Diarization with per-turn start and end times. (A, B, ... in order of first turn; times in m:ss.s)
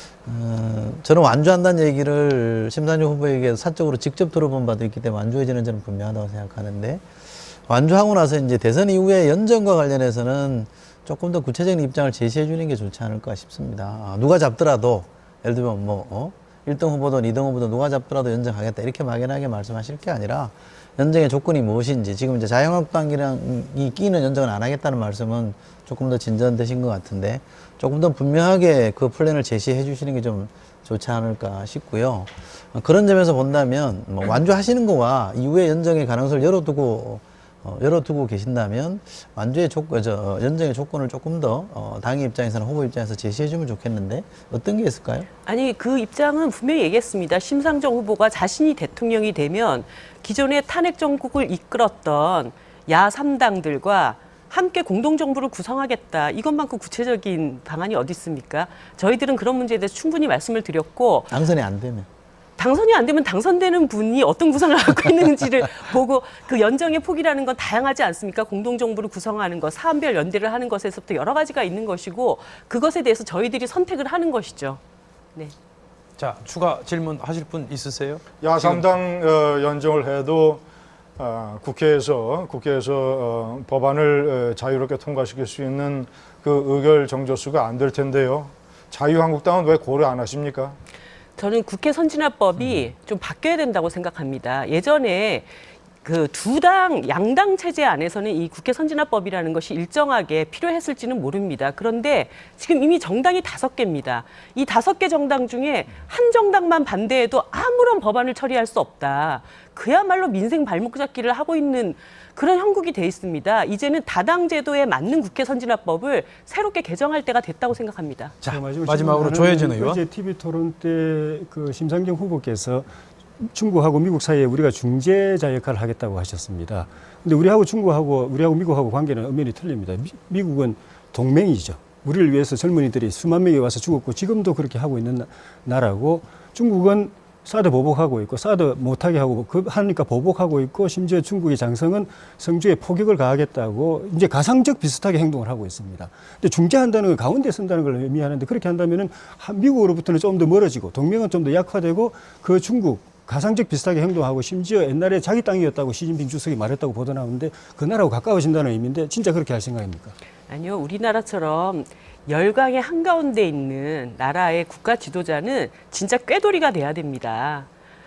0:00.2-0:07.0 A
0:07.7-0:45.3 A
0:45.5-1:01.4 B
1:01.3-1:02.1 A
1:02.6-1:14.8 B
1:16.2-1:18.9 C
1:18.4-1:20.6 D
1:21.2-1:30.8 D
1:31.4-1:35.5 B
1:36.0-1:58.4 B
1:58.4-2:02.9 E
1:58.4-2:00.0 C
2:03.4-2:40.1 E
2:40.5-2:47.7 B